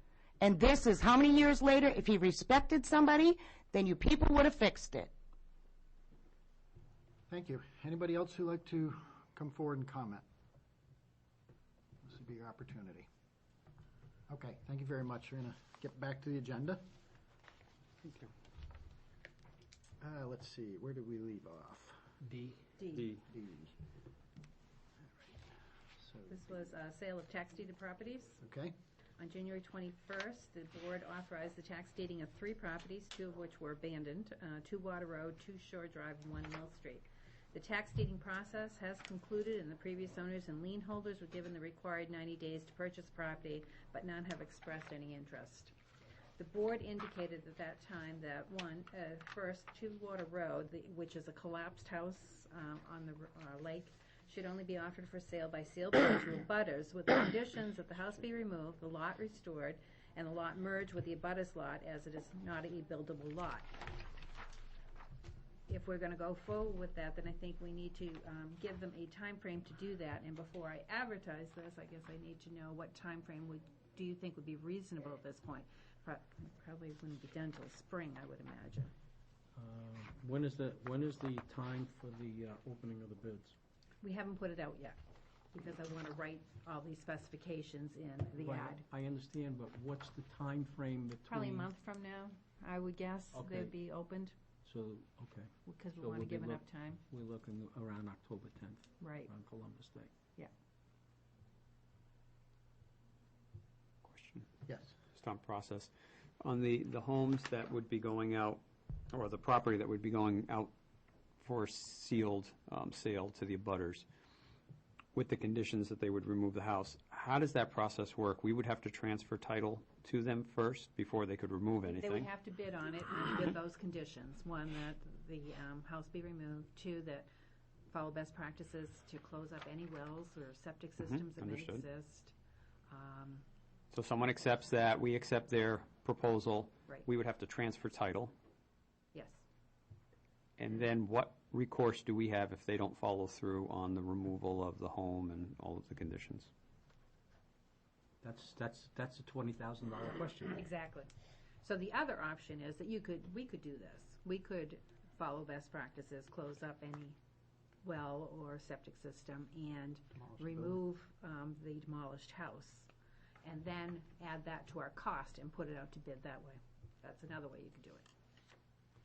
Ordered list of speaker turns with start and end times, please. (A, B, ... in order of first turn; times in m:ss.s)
0:00.4-0:05.1 A
0:07.3-0:10.2 B
0:12.0-0:13.1 B
0:14.3-0:16.8 B
0:18.0-0:18.3 C
0:20.0-0:22.0 B
0:22.2-0:22.7 D
0:22.8-0:23.1 E
0:22.9-0:23.2 C
0:23.3-0:23.7 B
0:26.0-0:26.4 B
0:26.3-0:28.4 E
0:28.4-0:28.7 B
0:29.2-0:45.7 E
0:46.4-1:03.7 E
1:05.7-1:18.9 E
1:19.6-1:23.6 D
1:24.0-1:25.0 E
1:25.5-1:28.8 E
1:28.4-1:31.7 D
1:31.3-1:34.4 E
1:33.3-1:33.8 D
1:34.6-1:40.1 D
1:35.6-1:37.0 E
1:39.0-1:39.3 E
1:44.0-1:44.5 C
1:44.7-1:44.9 B
1:45.1-1:50.7 C
1:51.4-1:54.0 C
1:55.1-2:02.3 C
2:01.8-2:07.3 E
2:07.9-2:12.3 E
2:11.0-2:11.8 C
2:12.9-2:13.4 E
2:13.9-2:18.3 C
2:19.1-2:19.4 E
2:20.6-2:26.5 C
2:28.2-2:30.6 D
2:30.5-2:31.1 E
2:31.6-2:37.2 E
2:37.8-2:42.9 E
2:40.1-2:40.8 B
2:43.4-2:48.1 E